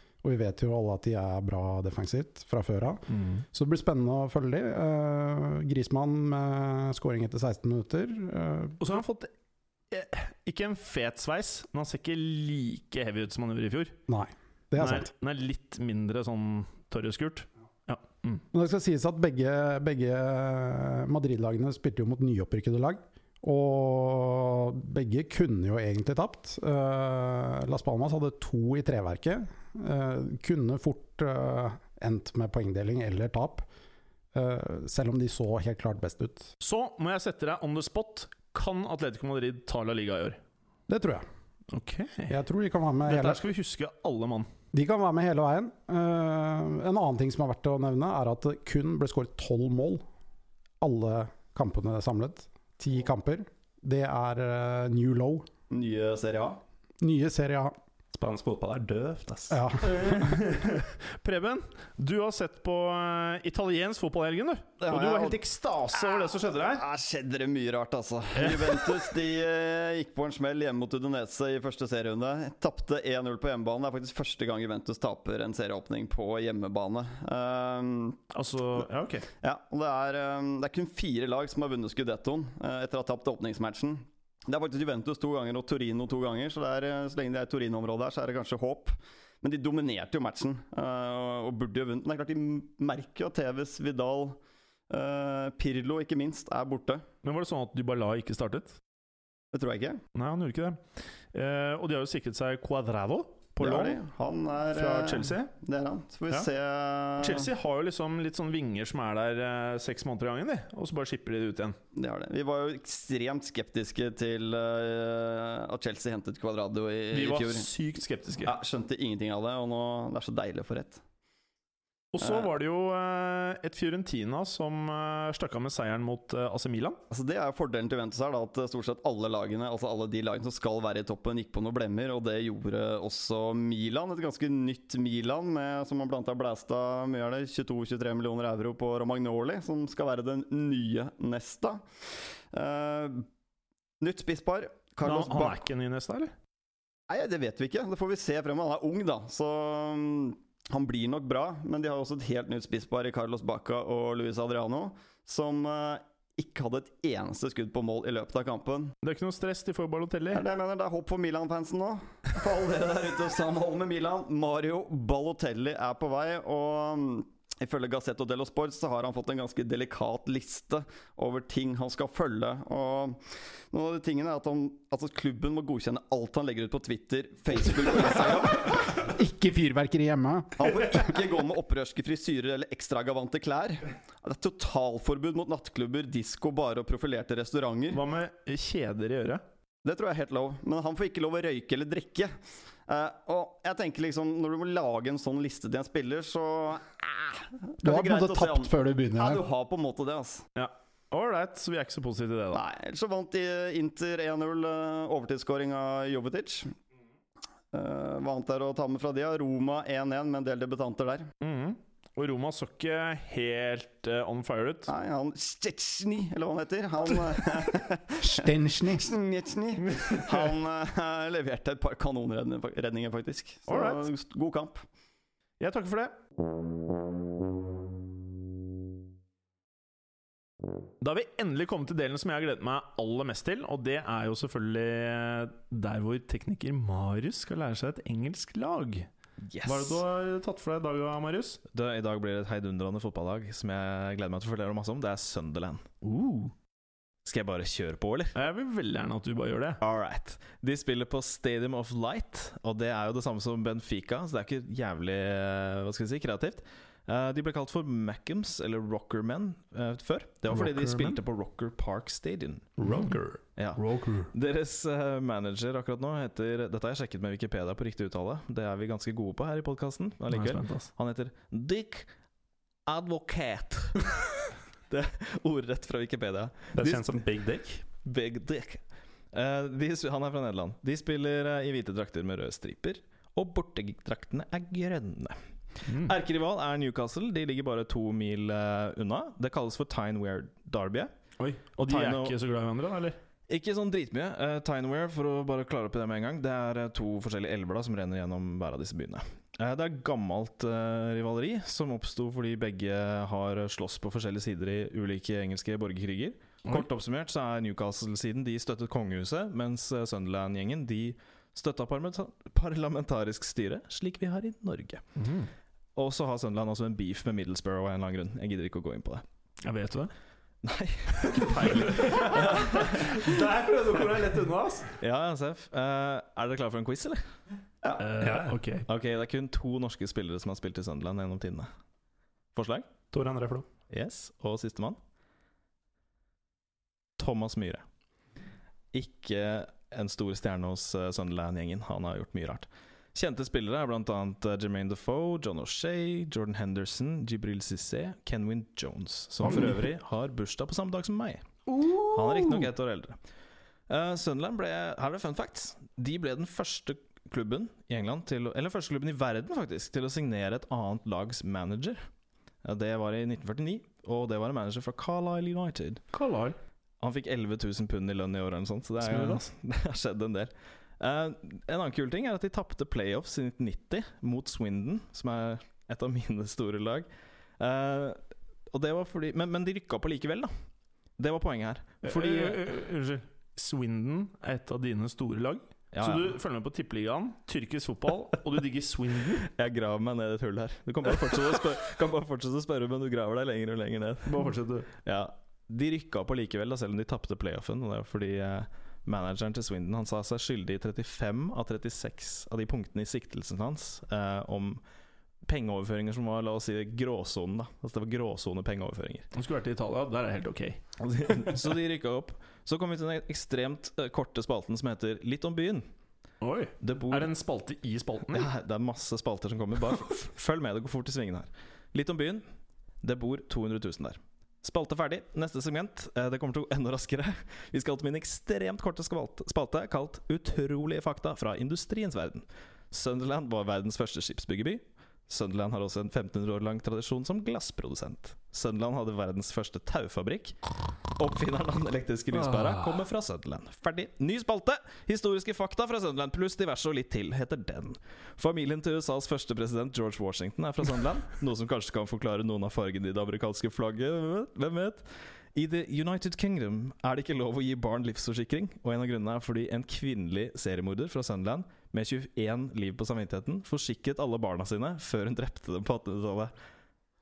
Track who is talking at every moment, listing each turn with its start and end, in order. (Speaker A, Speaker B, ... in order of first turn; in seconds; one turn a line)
Speaker A: 0.2-3.0
Speaker B: 3.1-3.4
Speaker A: 3.5-8.8
Speaker B: 8.8-9.3
Speaker B: 9.9-14.0
Speaker A: 14.1-15.1
Speaker B: 14.8-18.4
Speaker A: 18.5-33.7
Speaker A: 34.3-36.5
Speaker B: 36.6-40.4
Speaker A: 40.9-41.2
Speaker B: 41.7-42.3
Speaker A: 42.3-43.4
Speaker B: 43.1-44.5
Speaker A: 44.7-50.0
Speaker A: 50.8-55.5
Speaker C: 55.7-56.6
Speaker A: 57.0-57.7
Speaker D: 58.1-59.6
Speaker A: 59.5-60.4
Speaker B: 59.8-66.8
Speaker C: 64.8-65.3
Speaker C: 65.9-78.2
Speaker B: 68.3-69.1
Speaker B: 78.3-79.3
Speaker C: 79.4-94.4
Speaker C: 94.9-97.0
Speaker B: 97.2-98.8
Speaker C: 99.5-100.0
Speaker B: 100.1-104.0
Speaker C: 103.6-107.5
Speaker B: 104.7-105.5
Speaker B: 107.2-111.8
Speaker C: 111.9-117.7
Speaker B: 117.1-118.5
Speaker C: 118.4-121.0
Speaker B: 122.1-127.0
Speaker C: 122.2-122.5
Speaker C: 127.1-143.2
Speaker C: 144.0-145.6
Speaker B: 145.0-146.3
Speaker C: 147.1-158.9
Speaker B: 159.0-160.4
Speaker C: 160.3-178.9
Speaker A: 179.0-180.9
Speaker C: 180.6-188.0
Speaker B: 187.9-189.4
Speaker C: 189.8-192.3
Speaker C: 192.8-200.4
Speaker A: 197.8-199.4
Speaker B: 200.6-202.6
Speaker C: 202.5-206.7
Speaker C: 207.7-211.3
Speaker B: 211.4-214.9
Speaker C: 214.9-224.8
Speaker A: 218.2-219.1
Speaker B: 219.9-220.5
Speaker B: 223.7-224.1
Speaker B: 225.6-226.1
Speaker B: 231.0-239.1
Speaker E: 239.5-240.0
Speaker B: 239.6-241.6
Speaker E: 241.7-245.8
Speaker B: 246.0-246.5
Speaker E: 247.2-248.3
Speaker B: 248.3-249.8
Speaker E: 249.8-262.9
Speaker B: 260.5-261.2
Speaker B: 262.8-264.3
Speaker D: 262.8-263.4
Speaker E: 263.6-272.1
Speaker B: 270.3-270.9
Speaker E: 272.9-274.1
Speaker E: 274.9-277.3
Speaker D: 276.7-277.8
Speaker E: 277.9-291.1
Speaker B: 285.9-286.1
Speaker B: 291.4-293.2
Speaker E: 291.7-292.4
Speaker E: 293.5-315.0
Speaker B: 315.2-315.5
Speaker E: 315.9-319.2
Speaker B: 319.6-320.1
Speaker E: 320.6-322.9
Speaker B: 321.2-324.9
Speaker E: 325.0-327.3
Speaker B: 328.0-328.9
Speaker D: 328.2-328.6
Speaker E: 328.9-331.7
Speaker E: 332.5-332.9
Speaker D: 333.1-333.6
Speaker E: 333.9-335.0
Speaker E: 337.2-337.8
Speaker E: 338.9-353.2
Speaker B: 349.4-349.8
Speaker B: 351.7-352.7
Speaker E: 353.9-362.0
Speaker E: 362.6-366.0
Speaker B: 366.1-366.6
Speaker E: 367.0-380.5
Speaker B: 369.0-369.4
Speaker E: 381.2-382.6
Speaker B: 382.0-389.4
Speaker E: 385.9-386.3
Speaker E: 389.5-404.8
Speaker B: 394.2-394.9
Speaker E: 405.4-409.3
Speaker B: 409.3-410.8
Speaker E: 411.0-415.9
Speaker B: 416.4-418.5
Speaker E: 416.8-417.3
Speaker E: 418.3-422.4
Speaker E: 423.0-466.5